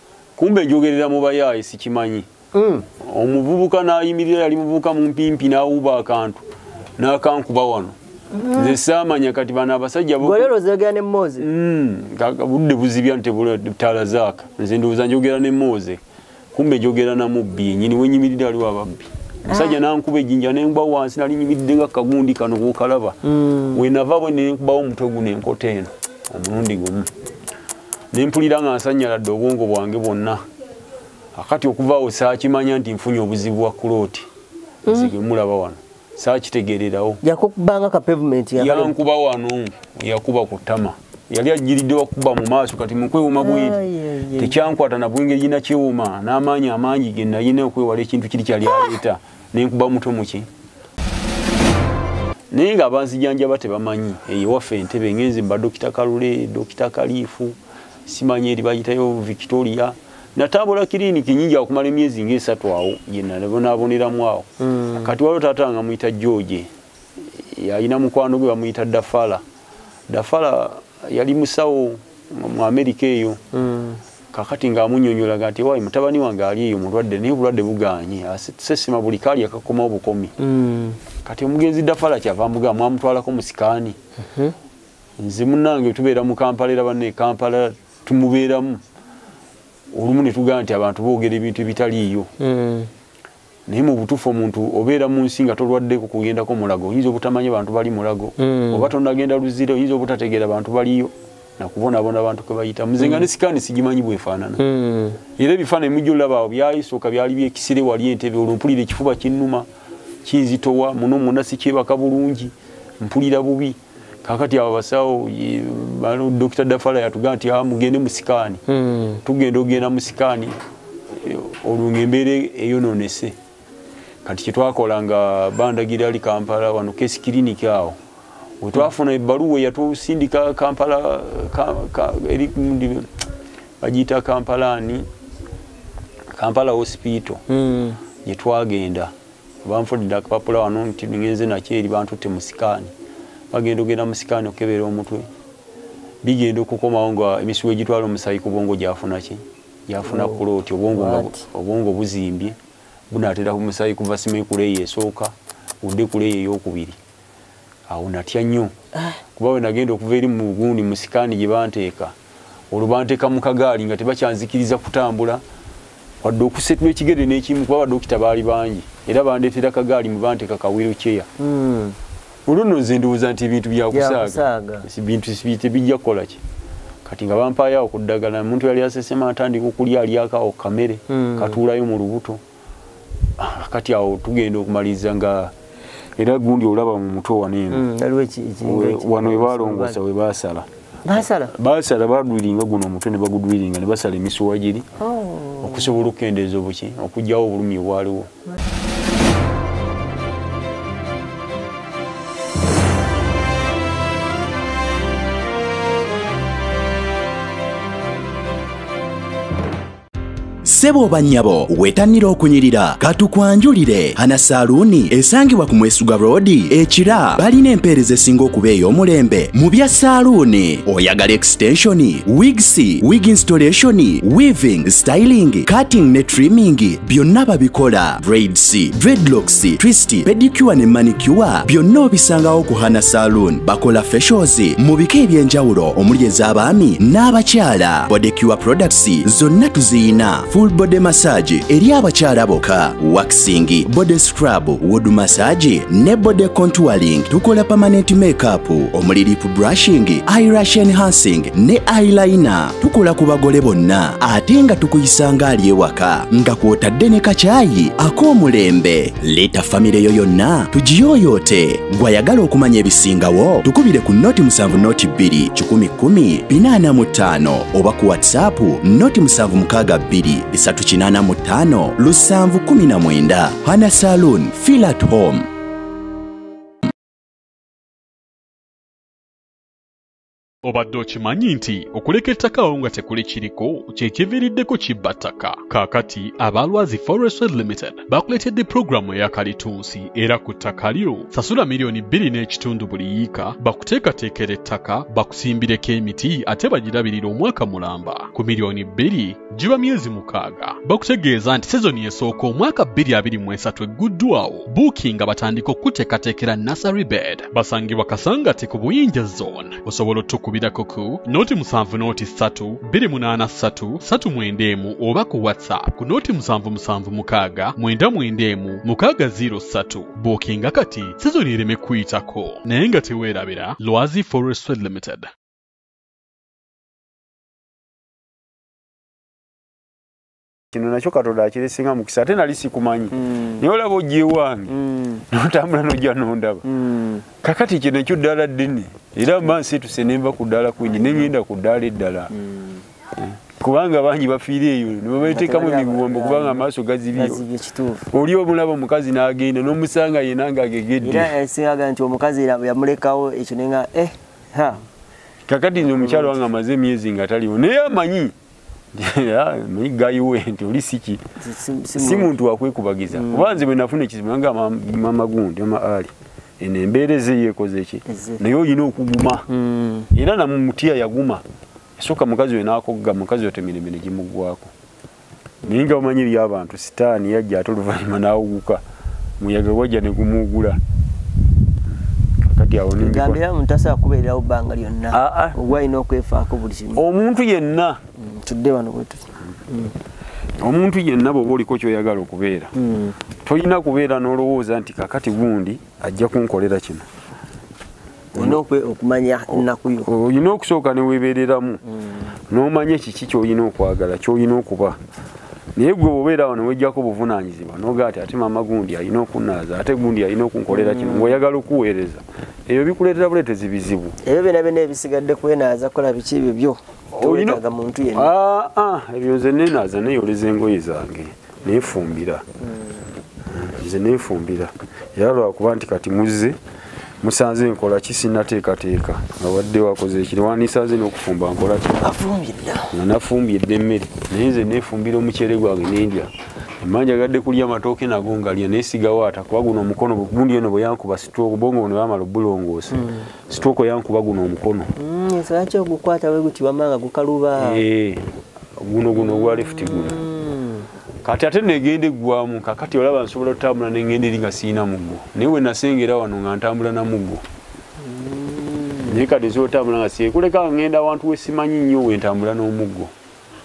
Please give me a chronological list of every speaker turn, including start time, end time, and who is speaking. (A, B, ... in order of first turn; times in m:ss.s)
0:00.4-0:02.2 A
0:02.5-0:02.8 B
0:03.0-0:06.4 A
0:07.0-0:07.9 A
0:08.3-0:08.8 B
0:08.5-0:10.5 A
0:10.2-0:11.4 B
0:11.4-0:16.0 A
0:16.5-0:23.2 A
0:19.5-0:19.8 B
0:23.2-0:23.8 B
0:23.7-0:27.1 A
0:28.1-0:30.4 A
0:31.3-0:34.3 A
0:34.9-0:35.1 B
0:34.9-0:37.2 A
0:37.2-0:39.0 B
0:38.6-0:43.8 A
0:43.4-0:44.6 B
0:44.4-0:50.5 A
0:52.5-1:06.7 A
1:04.6-1:05.1 B
1:07.4-1:09.4 A
1:10.1-1:13.4 A
1:13.5-1:14.0 B
1:14.3-1:20.3 A
1:20.4-1:21.0 B
1:21.2-1:24.0 A
1:24.2-1:24.5 B
1:25.2-1:28.8 A
1:29.9-1:32.3 A
1:32.4-1:32.9 B
1:33.7-1:44.6 A
1:38.4-1:38.9 B
1:43.0-1:43.3 B
1:44.6-1:45.2 B
1:45.4-1:49.6 A
1:50.2-1:58.6 A
1:58.7-1:59.2 B
1:59.2-2:00.6 A
2:01.1-2:03.3 A
2:04.2-2:08.0 A
2:08.6-2:13.1 A
2:13.8-2:15.1 A
2:16.3-2:17.4 A
2:17.5-2:18.0 B
2:18.2-2:19.1 A
2:19.6-2:22.9 A
2:23.5-2:25.3 A
2:26.2-2:32.6 A
2:30.1-2:31.4 B
2:33.1-2:37.0 A
2:37.9-2:38.7 A
2:39.4-2:42.1 A
2:42.7-2:45.4 A
2:46.2-2:51.3 A
2:51.4-2:52.0 B
2:52.4-2:56.4 A
2:53.9-2:54.9 B
2:57.0-3:02.4 A
3:01.1-3:01.6 B
3:03.4-3:05.5 A
3:06.2-3:07.8 A
3:07.7-3:10.0 B
3:08.6-3:10.7 A
3:11.0-3:11.5 B
3:11.5-3:14.9 A
3:15.0-3:15.9 B
3:15.6-3:18.3 A
3:30.6-4:35.5 C
4:40.6-5:25.3 D
5:30.7-5:34.7 A
5:33.1-5:33.6 B
5:34.7-5:35.2 B
5:35.3-5:36.6 A
5:36.6-5:37.2 B
5:37.4-5:42.3 A
5:42.3-5:42.8 B
5:43.2-5:47.4 A
5:45.2-5:48.1 B
5:48.1-5:51.3 A
5:51.0-5:54.8 B
5:55.5-5:58.3 A
5:56.0-5:56.4 B
5:58.9-6:01.2 A
6:01.4-6:02.3 B
6:01.9-6:09.5 A
6:03.1-6:03.6 B
6:08.1-6:08.4 B
6:09.5-6:10.1 B
6:10.1-6:11.4 A
6:12.0-6:14.7 A
6:15.6-6:18.8 A
6:19.4-6:20.8 A
6:22.5-6:23.4 A
6:23.0-6:27.0 B
6:25.1-6:25.6 A
6:26.9-6:28.0 A
6:28.2-6:29.9 B
6:30.6-6:32.7 A
6:32.7-6:33.2 B
6:33.4-6:37.0 A
6:38.3-6:40.1 B
6:39.5-6:41.8 A
6:41.9-6:42.3 B
6:42.5-6:45.0 A
6:45.7-6:54.2 A
6:50.7-6:51.4 B
6:54.2-6:58.3 B
6:57.1-6:57.6 A
6:58.1-7:02.4 A
7:03.4-7:06.6 A
7:07.2-7:12.0 A
7:12.0-7:12.9 B
7:12.9-7:24.9 A
7:22.9-7:23.3 B
7:25.0-7:27.8 B
7:27.6-7:28.2 A
7:28.8-7:30.2 A
7:29.2-7:30.9 B
7:31.2-7:37.4 A
7:38.0-7:39.2 B
7:39.0-7:43.1 A